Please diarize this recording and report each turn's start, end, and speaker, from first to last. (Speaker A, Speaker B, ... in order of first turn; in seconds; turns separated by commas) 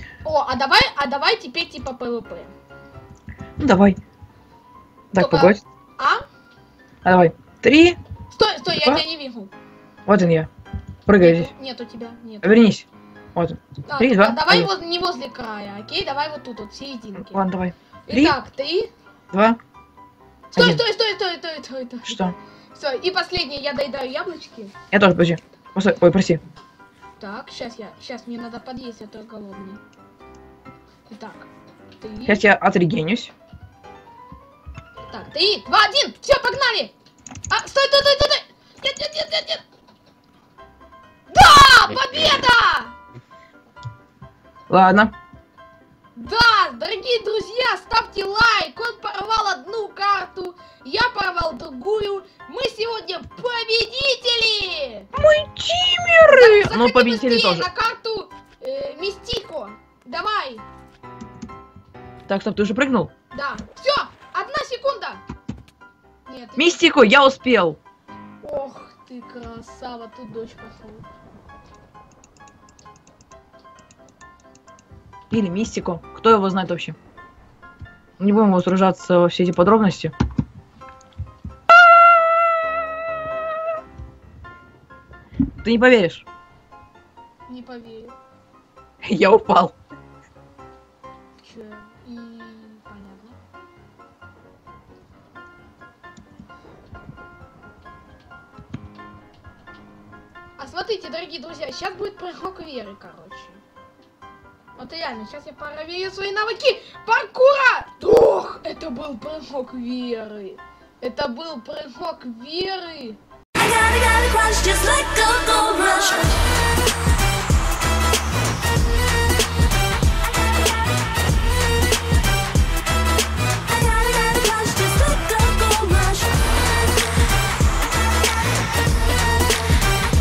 Speaker A: 0.2-2.5, Speaker B: 3.6-4.0, Speaker B: 5.1-5.6, Speaker A: 5.2-6.2, Speaker B: 7.0-8.0, Speaker A: 8.3-9.5, Speaker B: 8.7-9.0, Speaker B: 10.1-10.5, Speaker B: 11.1-11.5, Speaker A: 11.2-12.6, Speaker B: 12.4-14.7, Speaker A: 13.9-17.4, Speaker B: 17.1-18.4, Speaker A: 18.1-18.9, Speaker B: 19.3-19.6, Speaker A: 20.5-22.2, Speaker B: 20.6-20.8, Speaker B: 22.1-22.4, Speaker A: 22.7-24.7, Speaker B: 24.9-26.4, Speaker A: 27.2-29.8, Speaker A: 31.1-31.5, Speaker A: 32.0-32.4, Speaker B: 32.3-33.3, Speaker A: 35.1-36.9, Speaker A: 37.5-39.6, Speaker A: 41.3-42.9, Speaker B: 44.7-45.1, Speaker A: 46.1-55.1, Speaker B: 55.1-57.7, Speaker A: 56.3-60.6, Speaker B: 62.3-63.1, Speaker A: 63.3-65.2, Speaker A: 66.2-66.8, Speaker B: 66.6-67.8, Speaker A: 68.4-71.1, Speaker B: 75.3-77.0, Speaker B: 78.2-80.1, Speaker B: 85.6-86.2, Speaker A: 87.5-88.1, Speaker B: 89.0-89.7, Speaker A: 91.4-93.4, Speaker A: 100.6-103.6, Speaker A: 104.8-113.2, Speaker C: 113.6-116.4, Speaker C: 123.7-126.6